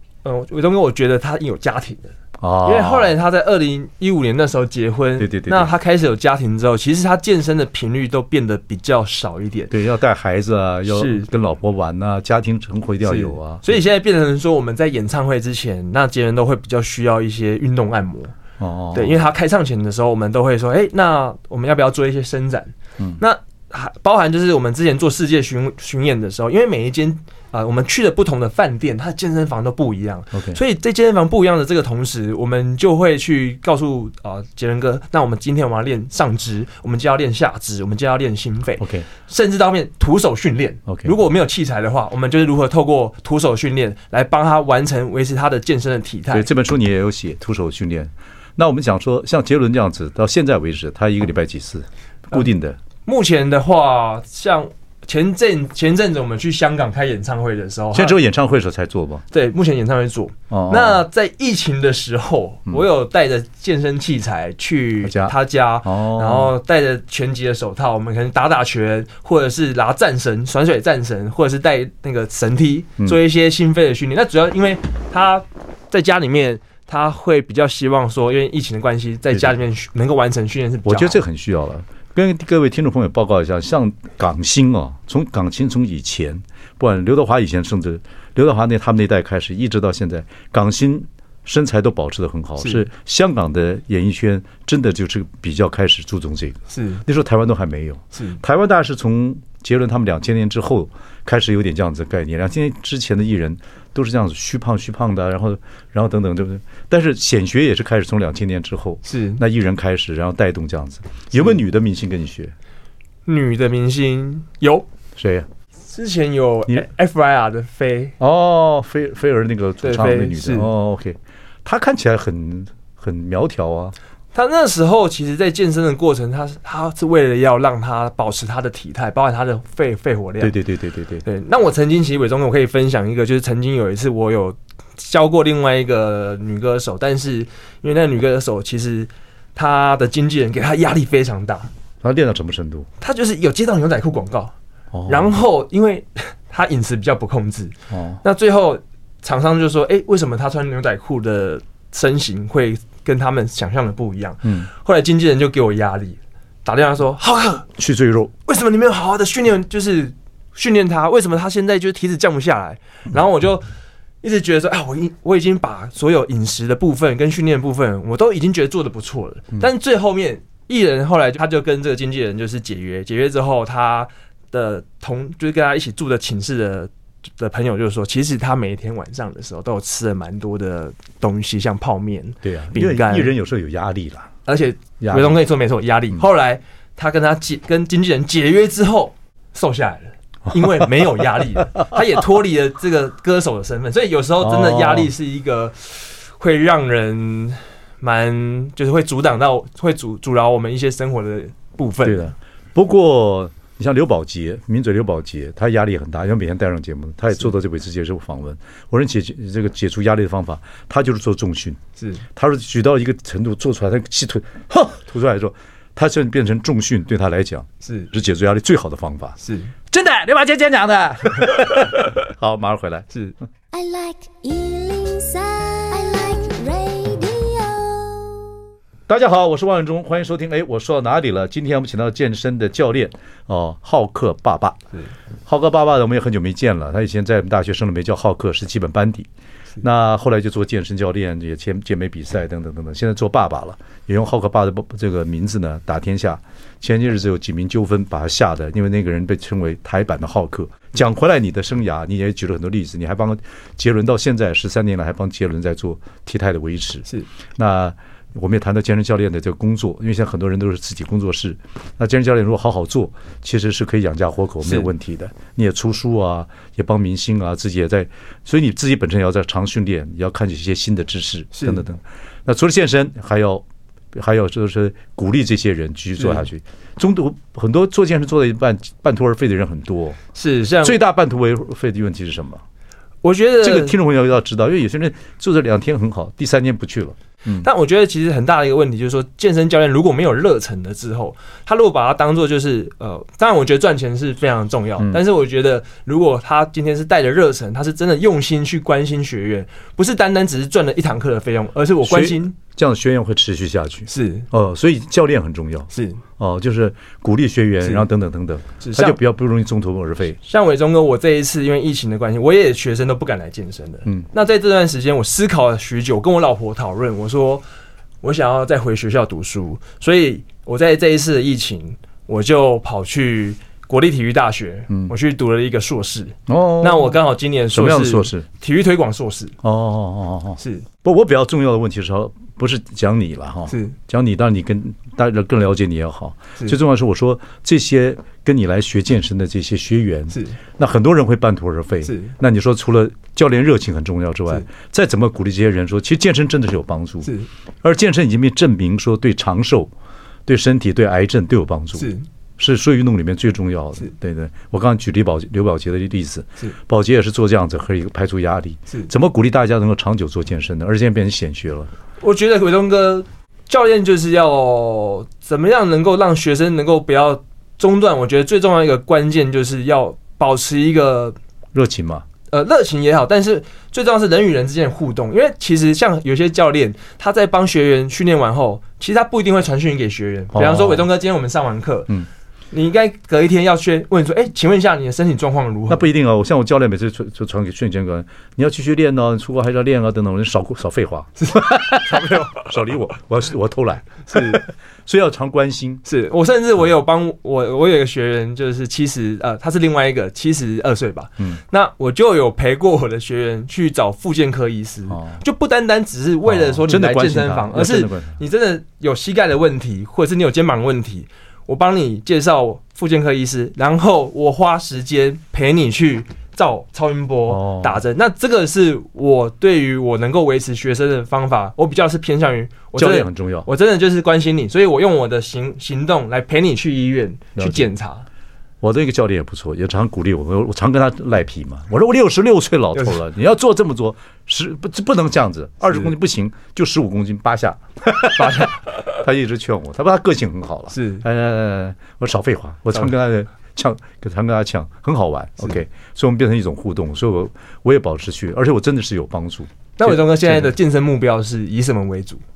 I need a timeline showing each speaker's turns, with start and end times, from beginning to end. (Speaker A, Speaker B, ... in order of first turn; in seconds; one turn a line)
Speaker A: 0.2-9.7
Speaker B: 2.4-3.1
Speaker B: 5.2-5.7
Speaker B: 9.7-13.8
Speaker A: 10.9-11.3
Speaker A: 13.1-18.4
Speaker B: 18.6-19.2
Speaker A: 18.9-46.5
Speaker B: 30.3-30.6
Speaker B: 38.8-39.1
Speaker B: 46.3-52.8
Speaker A: 53.0-58.2
Speaker B: 57.9-59.2
Speaker A: 59.3-81.2
Speaker B: 60.5-61.0
Speaker B: 65.0-66.5
Speaker B: 79.3-79.6
Speaker B: 80.8-112.5
Speaker A: 96.7-97.0
Speaker A: 109.1-109.4
Speaker A: 113.3-114.9
Speaker B: 115.2-115.5
Speaker A: 115.9-118.2
Speaker B: 118.2-124.0
Speaker A: 119.8-120.7
Speaker A: 124.3-130.6
Speaker B: 130.4-131.2
Speaker A: 131.2-141.7
Speaker B: 142.0-142.9
Speaker A: 143.0-144.5
Speaker B: 144.9-145.3
Speaker A: 145.1-157.7
Speaker B: 147.9-148.2
Speaker B: 157.8-158.3
Speaker A: 158.5-163.7
Speaker A: 164.2-183.3
Speaker B: 182.4-184.3
Speaker A: 184.5-202.3
Speaker B: 185.0-185.4
Speaker B: 190.6-190.9
Speaker B: 194.4-195.1
Speaker B: 202.0-211.8
Speaker B: 212.3-219.4
Speaker A: 219.4-219.7
Speaker B: 219.9-223.1
Speaker C: 223.7-228.5
Speaker B: 229.1-234.8
Speaker B: 235.5-239.3
Speaker B: 239.8-280.2
Speaker A: 264.6-264.9
Speaker A: 271.5-271.8
Speaker A: 280.4-281.0
Speaker B: 280.8-282.6
Speaker A: 283.2-284.0
Speaker B: 283.6-287.7
Speaker A: 287.6-302.6
Speaker B: 302.0-310.4
Speaker A: 304.1-304.5
Speaker A: 305.9-306.2
Speaker A: 308.8-309.2
Speaker A: 310.4-317.6
Speaker A: 318.2-329.6
Speaker B: 326.5-327.2
Speaker B: 327.7-328.5
Speaker B: 329.6-349.9
Speaker A: 330.6-330.9
Speaker A: 333.7-333.9
Speaker A: 342.1-342.3
Speaker B: 350.5-361.9
Speaker A: 362.2-371.4
Speaker B: 371.7-372.3
Speaker A: 372.5-382.2
Speaker B: 380.5-381.1
Speaker A: 382.7-386.1
Speaker B: 385.9-396.0
Speaker A: 391.4-392.6
Speaker A: 394.3-394.6
Speaker A: 396.1-428.3
Speaker B: 405.1-405.4
Speaker B: 406.4-408.4
Speaker B: 417.5-418.0
Speaker B: 423.0-423.7
Speaker B: 427.6-427.9
Speaker B: 428.8-450.7
Speaker A: 438.3-438.9
Speaker A: 440.9-441.2
Speaker A: 450.0-452.4